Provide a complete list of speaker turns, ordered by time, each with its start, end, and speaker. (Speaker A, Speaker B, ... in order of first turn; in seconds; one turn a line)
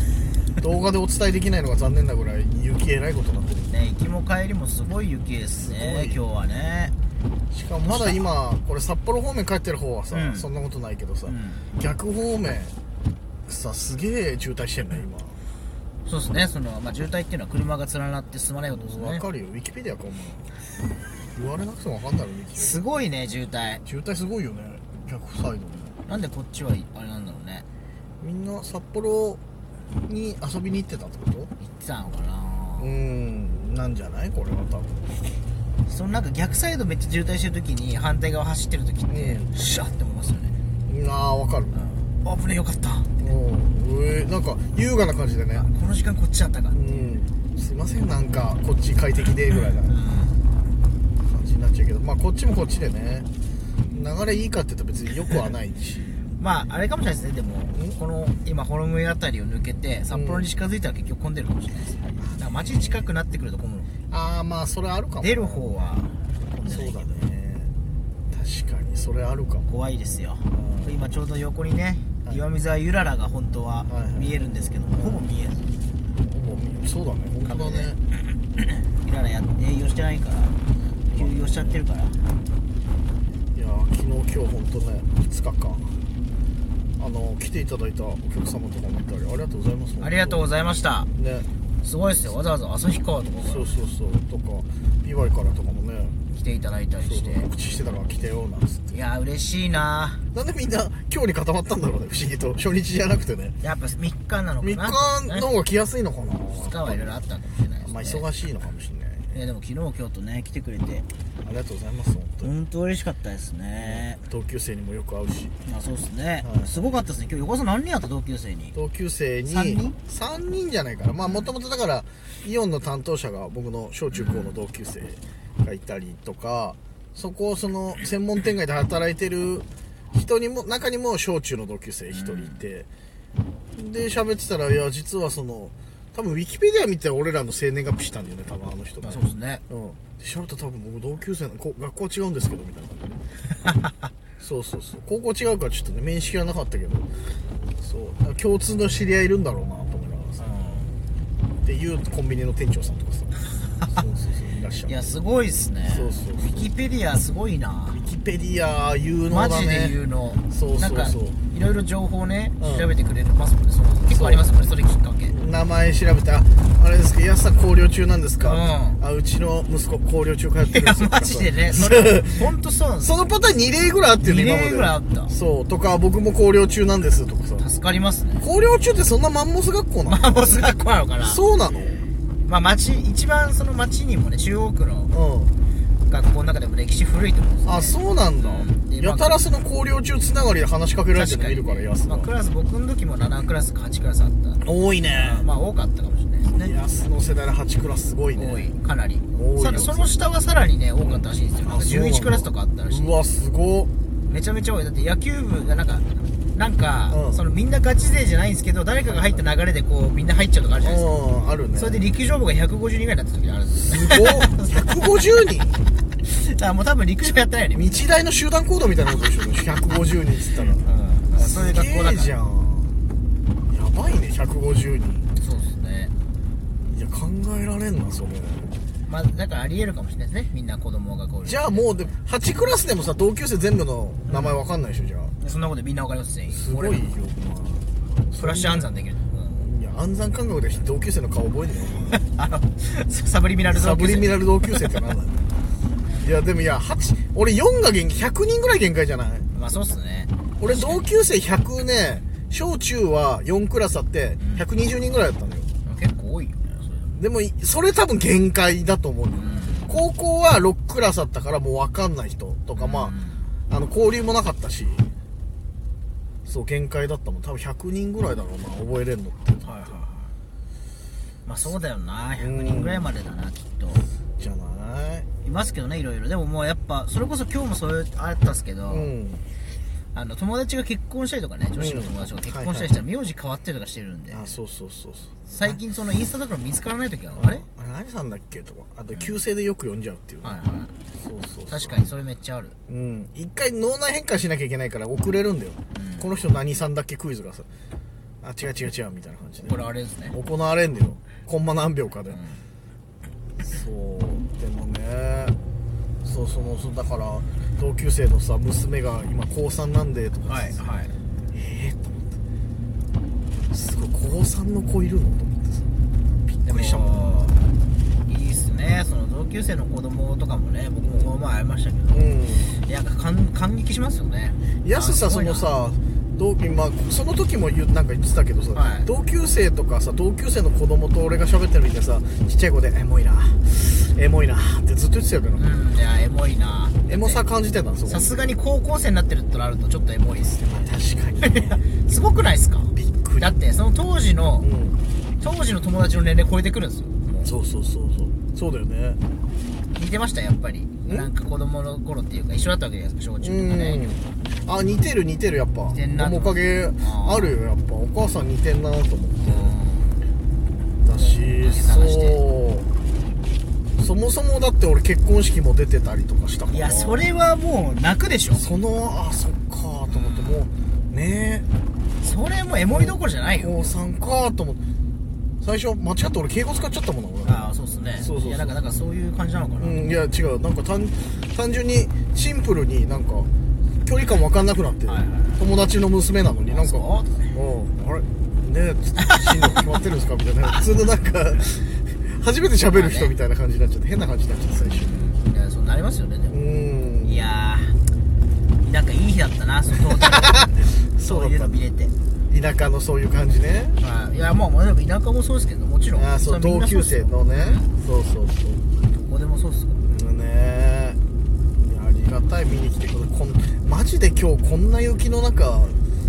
Speaker A: 0.6-3.7
Speaker B: 3.7-6.9
Speaker A: 5.6-6.2
Speaker A: 7.5-12.7
Speaker B: 7.8-8.2
Speaker B: 10.1-10.5
Speaker B: 11.3-11.7
Speaker A: 13.5-15.4
Speaker B: 16.1-19.2
Speaker A: 18.7-20.5
Speaker A: 21.4-22.8
Speaker B: 22.6-23.8
Speaker A: 23.8-26.0
Speaker B: 26.1-27.6
Speaker A: 28.2-29.4
Speaker A: 30.1-31.5
Speaker B: 31.6-33.0
Speaker A: 32.8-35.1
Speaker B: 35.9-40.5
Speaker A: 39.1-39.5
Speaker A: 40.9-41.8
Speaker B: 41.7-43.1
Speaker A: 43.2-45.7
Speaker B: 45.5-46.8
Speaker A: 46.7-50.0
Speaker B: 49.5-50.4
Speaker A: 51.2-53.3
Speaker A: 53.9-56.3
Speaker B: 56.4-63.9
Speaker A: 60.1-60.5
Speaker A: 62.1-63.1
Speaker A: 64.1-66.0
Speaker B: 65.2-67.3
Speaker A: 66.7-67.7
Speaker A: 68.3-69.7
Speaker B: 69.7-75.6
Speaker A: 70.5-71.0
Speaker A: 73.9-74.3
Speaker A: 74.9-75.3
Speaker A: 76.2-78.0
Speaker B: 77.5-78.0
Speaker B: 78.6-80.5
Speaker B: 81.1-82.2
Speaker A: 81.2-81.8
Speaker A: 83.5-86.0
Speaker A: 87.0-90.5
Speaker B: 90.0-91.1
Speaker A: 91.2-91.5
Speaker B: 91.8-93.8
Speaker A: 92.0-92.3
Speaker A: 93.4-96.2
Speaker B: 96.3-97.5
Speaker A: 97.0-99.0
Speaker B: 98.9-100.2
Speaker A: 100.3-103.6
Speaker B: 103.6-105.5
Speaker A: 104.6-107.1
Speaker B: 106.5-108.2
Speaker A: 107.8-109.3
Speaker B: 109.3-111.1
Speaker A: 111.4-112.5
Speaker B: 112.4-114.2
Speaker A: 113.8-115.5
Speaker B: 115.6-118.8
Speaker A: 116.4-116.7
Speaker A: 118.7-132.9
Speaker B: 119.5-120.0
Speaker B: 121.2-121.5
Speaker B: 124.1-124.5
Speaker B: 132.1-132.6
Speaker A: 133.8-143.2
Speaker B: 139.0-139.6
Speaker A: 144.4-147.1
Speaker A: 147.8-150.4
Speaker B: 150.4-151.0
Speaker A: 151.6-153.3
Speaker A: 153.9-155.0
Speaker B: 154.9-158.1
Speaker A: 155.9-156.7
Speaker A: 157.9-159.9
Speaker B: 159.3-165.4
Speaker A: 160.5-161.4
Speaker A: 162.6-162.9
Speaker A: 164.1-164.4
Speaker A: 165.3-172.4
Speaker B: 168.4-169.0
Speaker B: 170.6-173.1
Speaker A: 173.0-177.7
Speaker B: 174.2-175.3
Speaker B: 177.6-178.5
Speaker A: 178.4-180.6
Speaker B: 180.0-181.4
Speaker A: 181.2-182.0
Speaker B: 182.5-185.1
Speaker A: 185.1-185.5
Speaker B: 186.1-189.4
Speaker A: 187.7-192.3
Speaker B: 191.1-194.6
Speaker A: 194.6-195.5
Speaker B: 195.2-196.8
Speaker A: 196.4-198.7
Speaker B: 198.4-203.1
Speaker A: 199.3-200.1
Speaker A: 201.0-203.9
Speaker B: 204.3-211.1
Speaker A: 207.1-207.4
Speaker A: 210.8-212.1
Speaker B: 211.7-215.0
Speaker A: 213.7-215.8
Speaker B: 216.2-218.1
Speaker A: 217.7-223.0
Speaker B: 220.8-222.3
Speaker A: 223.7-225.3
Speaker B: 225.4-226.1
Speaker A: 226.8-228.7
Speaker B: 229.1-232.1
Speaker A: 231.4-235.3
Speaker B: 234.3-234.6
Speaker B: 235.4-237.1
Speaker A: 236.5-238.9
Speaker B: 238.4-239.7
Speaker A: 239.5-242.2
Speaker B: 242.1-244.8
Speaker A: 243.7-245.4
Speaker A: 246.2-250.0
Speaker B: 249.5-251.1
Speaker A: 250.6-255.7
Speaker B: 254.4-254.7
Speaker B: 255.8-257.1
Speaker A: 257.1-263.1
Speaker B: 259.4-260.0
Speaker B: 262.8-263.5
Speaker A: 263.7-265.1
Speaker A: 266.5-269.9
Speaker B: 269.6-270.3
Speaker B: 271.4-274.1
Speaker A: 272.4-273.1
Speaker A: 274.4-275.3
Speaker B: 275.4-279.1
Speaker A: 278.9-279.4
Speaker B: 280.1-284.5
Speaker A: 281.8-283.0
Speaker A: 284.3-285.8
Speaker B: 285.5-287.6
Speaker A: 287.3-290.5
Speaker B: 289.1-289.4
Speaker B: 290.4-290.9
Speaker A: 291.2-292.1
Speaker B: 291.7-292.8
Speaker A: 292.9-297.7
Speaker B: 295.9-296.4
Speaker A: 298.4-299.8
Speaker B: 299.6-300.4
Speaker A: 300.3-302.4
Speaker B: 302.3-302.6
Speaker A: 303.6-305.6
Speaker A: 306.2-310.8
Speaker B: 310.5-311.1
Speaker A: 311.5-312.4
Speaker A: 313.7-315.9
Speaker A: 316.5-317.6
Speaker B: 316.6-317.6
Speaker B: 318.3-322.2
Speaker A: 321.1-321.3
Speaker A: 322.1-322.7
Speaker B: 322.7-325.7
Speaker A: 324.8-335.8
Speaker B: 328.7-329.1
Speaker B: 335.6-337.4
Speaker A: 337.1-338.5
Speaker B: 338.1-340.8
Speaker A: 340.6-342.0
Speaker B: 341.4-344.7
Speaker A: 342.9-343.6
Speaker A: 344.6-345.0
Speaker B: 345.4-347.5
Speaker A: 347.4-349.2
Speaker B: 349.9-354.1
Speaker A: 351.1-351.3
Speaker A: 353.4-359.7
Speaker B: 355.9-357.6
Speaker B: 359.5-360.2
Speaker A: 361.0-362.9
Speaker B: 361.2-362.4
Speaker A: 364.0-367.2
Speaker B: 366.7-368.7
Speaker A: 368.5-371.7
Speaker B: 370.1-370.7
Speaker B: 372.2-373.9
Speaker A: 372.9-374.8
Speaker A: 375.6-378.8
Speaker B: 377.4-380.0
Speaker A: 379.8-383.5
Speaker A: 384.1-395.1
Speaker B: 385.1-385.6
Speaker B: 386.7-387.5
Speaker B: 392.9-393.3
Speaker B: 394.8-396.6
Speaker A: 396.5-397.5
Speaker B: 397.2-398.0
Speaker B: 398.8-402.1
Speaker A: 400.0-401.9
Speaker A: 402.5-404.0
Speaker B: 404.0-407.9
Speaker A: 406.2-408.8
Speaker B: 409.1-410.1
Speaker A: 410.1-411.2
Speaker A: 411.8-416.0